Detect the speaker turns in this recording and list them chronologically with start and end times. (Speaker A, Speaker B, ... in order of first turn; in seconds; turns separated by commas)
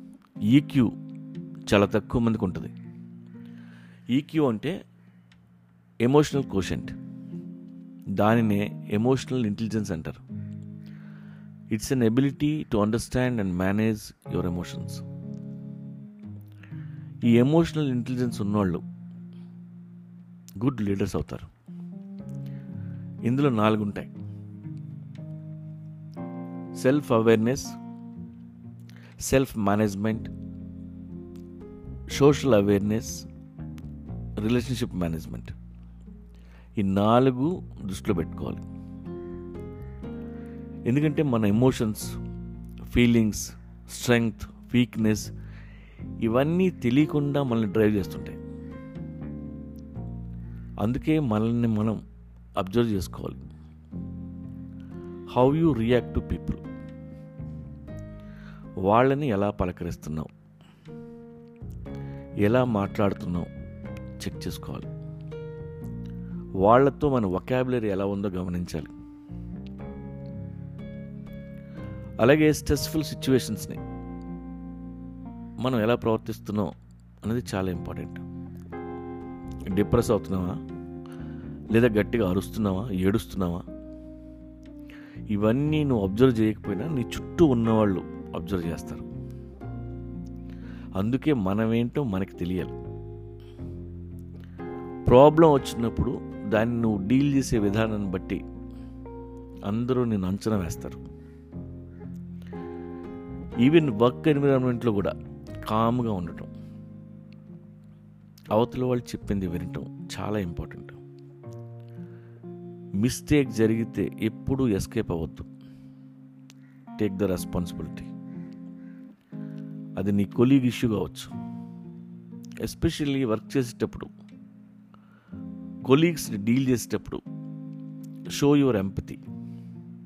Speaker A: 0.5-0.9, Speaker A: 1.7-2.7, Speaker A: 4.1-4.8, Speaker A: 6.0-6.9, Speaker A: 8.2-10.2, Speaker A: 11.7-15.0, Speaker A: 17.2-18.8, Speaker A: 20.6-21.5, Speaker A: 23.2-24.1, Speaker A: 26.8-27.8, Speaker A: 29.2-30.3, Speaker A: 32.1-33.3, Speaker A: 34.4-35.5, Speaker A: 36.8-38.6, Speaker A: 40.9-42.1, Speaker A: 42.9-45.3, Speaker A: 46.2-48.4, Speaker A: 50.8-52.0, Speaker A: 52.6-53.4, Speaker A: 55.3-56.6, Speaker A: 58.9-60.3, Speaker A: 62.4-63.5, Speaker A: 64.2-64.9, Speaker A: 66.6-68.9, Speaker A: 72.2-73.8, Speaker A: 75.6-78.2, Speaker A: 79.7-80.6, Speaker A: 81.7-83.7, Speaker A: 85.3-89.1, Speaker A: 91.0-92.8, Speaker A: 95.1-98.4, Speaker A: 99.7-101.0, Speaker A: 103.6-105.2, Speaker A: 105.7-106.5, Speaker A: 108.5-111.0, Speaker A: 113.0-115.5, Speaker A: 117.0-118.1, Speaker A: 120.0-121.3, Speaker A: 122.6-124.1, Speaker A: 125.8-127.2, Speaker A: 128.3-129.2